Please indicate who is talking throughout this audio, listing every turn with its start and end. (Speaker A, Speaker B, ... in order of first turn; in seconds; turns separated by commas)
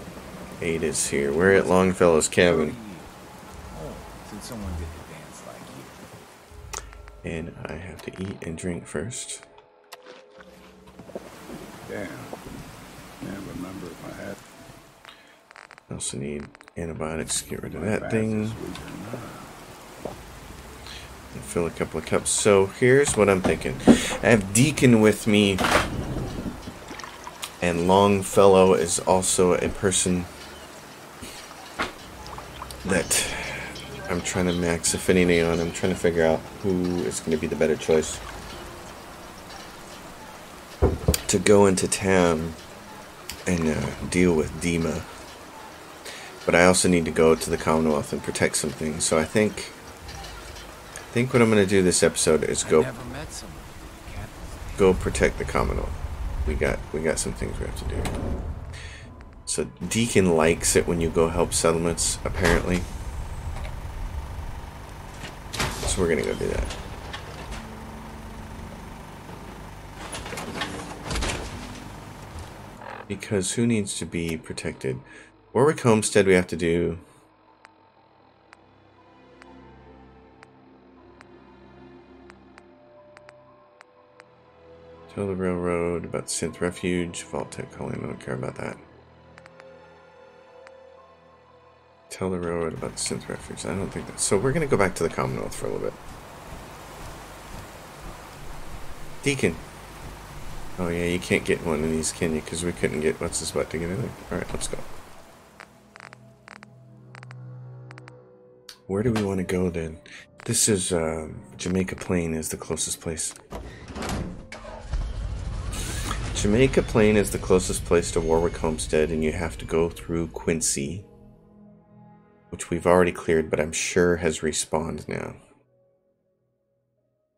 Speaker A: 0.6-2.8, Speaker B: 1.2-3.1, Speaker B: 3.6-6.0, Speaker A: 7.2-9.4, Speaker C: 11.8-12.3, Speaker C: 13.2-14.4, Speaker A: 15.9-18.6, Speaker C: 17.7-19.5, Speaker A: 21.3-25.6, Speaker A: 27.6-30.3, Speaker A: 32.8-38.2, Speaker A: 41.3-42.6, Speaker A: 43.5-45.1, Speaker A: 46.4-49.8, Speaker A: 51.1-52.9, Speaker B: 52.6-55.0, Speaker A: 54.8-58.1, Speaker A: 59.5-62.9, Speaker A: 65.8-66.7, Speaker A: 73.1-77.0, Speaker A: 85.1-88.8, Speaker A: 92.1-96.0, Speaker A: 99.2-99.6, Speaker A: 100.8-104.9, Speaker A: 108.9-113.3, Speaker A: 116.3-121.1, Speaker A: 122.5-125.4